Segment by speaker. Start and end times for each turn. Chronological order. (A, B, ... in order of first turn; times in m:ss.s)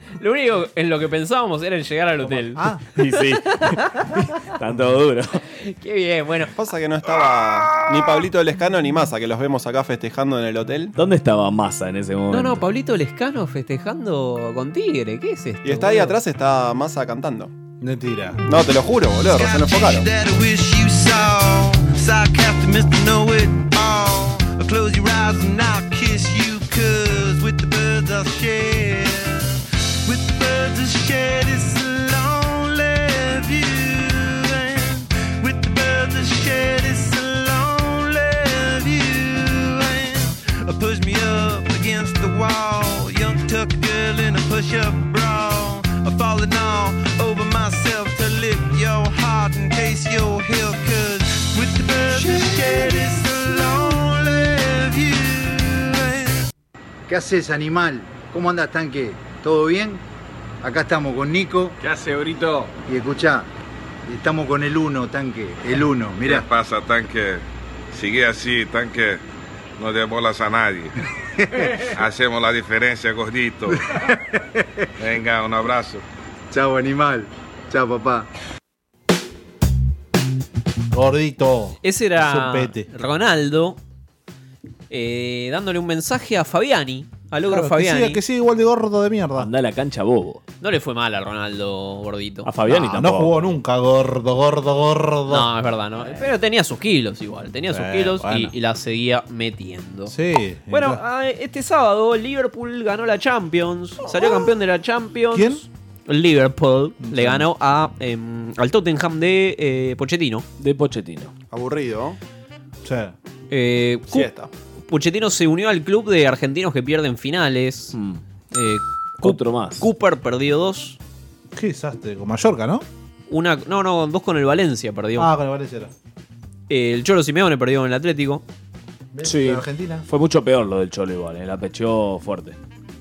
0:00.2-0:02.6 A
0:02.2-0:02.8 B
0:02.9-0:05.4 C
0:05.5-0:06.5 A
0:06.5-0:10.9 D
0:11.0-0:12.6 C
0:12.3-0:16.1 A
0:15.6-0:17.5 D
0:17.8-0:18.4 B
0:18.4-0:20.1 D
0:19.3-0:56.4 E
0:57.1-1:00.0 F
1:00.6-1:01.8 F
1:02.8-1:03.5 F
1:04.1-1:06.4 F
1:06.2-1:09.2 G
1:09.8-1:10.9 G
1:11.4-1:11.8 F
1:11.9-1:13.7 G
1:13.8-1:14.6 F
1:15.0-1:16.0 G
1:16.5-1:18.3 F
1:20.9-1:22.9 B
1:21.8-1:23.8 A
1:24.9-1:28.2 A
1:27.5-1:29.5 B
1:29.4-1:30.4 C
1:30.6-1:32.5 A
1:32.4-1:33.5 C
1:32.6-1:35.5 B
1:35.3-1:40.1 A
1:37.7-1:38.5 B
1:40.1-1:41.0 B
1:40.7-1:50.4 A
1:45.3-1:45.6 B
1:47.0-1:47.5 B
1:50.6-1:51.3 C
1:51.5-1:52.2 D
1:52.8-1:53.1 B
1:53.5-1:54.3 A
1:54.1-1:54.5 D
1:54.9-1:58.0 A
1:57.9-1:58.2 C
1:58.5-2:01.0 A
1:59.2-1:59.8 C
2:01.5-2:02.8 B
2:03.3-2:05.3 A
2:05.2-2:05.9 B
2:06.7-2:08.4 A
2:09.2-2:10.0 B
2:09.2-2:12.6 C